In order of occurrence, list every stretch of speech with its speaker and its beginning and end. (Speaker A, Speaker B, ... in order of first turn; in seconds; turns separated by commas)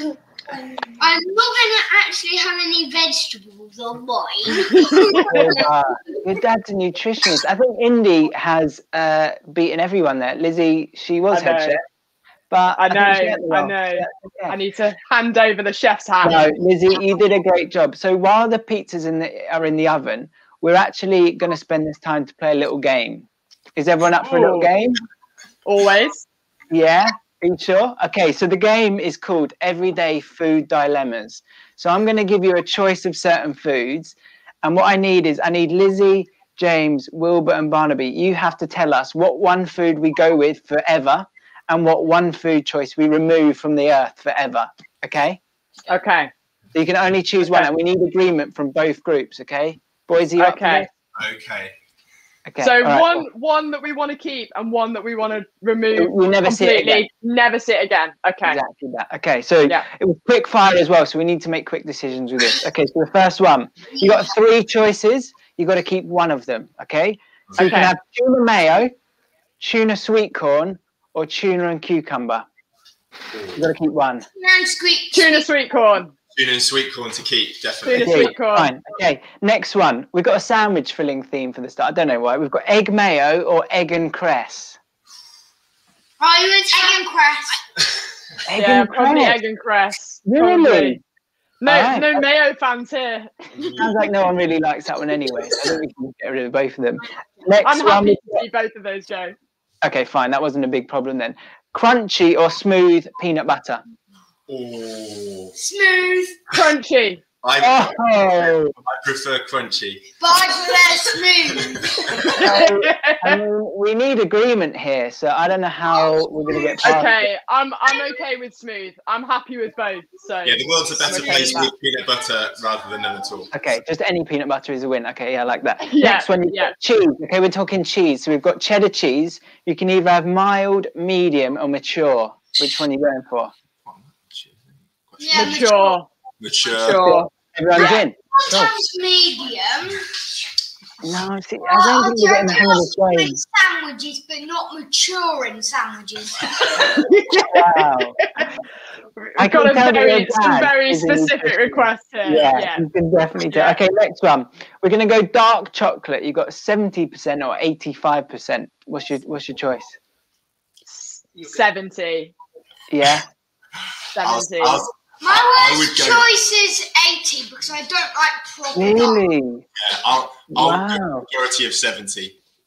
Speaker A: 1.0-5.7, Speaker B: 4.7-5.5, Speaker C: 5.3-11.8, Speaker B: 11.3-11.8, Speaker C: 12.5-14.6, Speaker B: 12.8-16.5, Speaker C: 16.2-25.0, Speaker B: 24.2-24.7, Speaker B: 25.6-26.3, Speaker C: 26.7-45.4, Speaker B: 45.9-46.3, Speaker C: 46.7-50.9, Speaker B: 50.4-50.9, Speaker D: 51.1-51.8, Speaker C: 52.5-53.3, Speaker B: 52.6-58.6, Speaker C: 56.0-57.1, Speaker C: 58.5-68.9, Speaker A: 63.9-64.3, Speaker D: 67.5-67.8, Speaker B: 67.6-67.9, Speaker C: 69.6-72.5, Speaker D: 73.3-73.7, Speaker C: 73.6-74.3, Speaker A: 74.3-75.5, Speaker B: 75.1-76.1, Speaker D: 76.3-78.3, Speaker B: 77.8-78.7, Speaker C: 78.0-84.8, Speaker A: 86.2-87.6, Speaker C: 88.5-89.4, Speaker B: 88.5-91.0, Speaker C: 90.3-91.0, Speaker B: 91.6-93.3, Speaker C: 91.7-92.2, Speaker D: 93.5-94.2, Speaker C: 93.8-98.5, Speaker B: 97.6-99.3, Speaker C: 99.8-103.8, Speaker D: 104.5-105.5, Speaker A: 105.6-106.4, Speaker B: 106.5-107.2, Speaker D: 107.4-112.4, Speaker C: 107.6-108.7, Speaker A: 110.2-112.2, Speaker B: 112.2-113.4, Speaker C: 112.4-117.2, Speaker A: 115.9-117.0, Speaker B: 116.8-121.7, Speaker A: 117.9-118.2, Speaker D: 120.4-123.5, Speaker C: 123.5-133.5, Speaker B: 125.8-126.8, Speaker D: 133.8-135.7, Speaker A: 135.2-136.0, Speaker B: 135.3-136.1, Speaker D: 136.4-137.0, Speaker B: 136.8-138.1, Speaker C: 136.8-138.7, Speaker A: 138.3-140.0, Speaker C: 141.0-143.4, Speaker A: 141.6-147.0, Speaker B: 146.8-148.5, Speaker C: 147.4-148.2, Speaker B: 149.2-152.9, Speaker C: 149.4-160.0, Speaker B: 153.5-153.8, Speaker B: 160.9-162.3, Speaker C: 162.9-163.3, Speaker B: 164.2-164.9, Speaker D: 164.2-166.3, Speaker A: 165.2-169.3, Speaker C: 168.8-169.7, Speaker D: 169.8-172.4, Speaker C: 170.5-171.3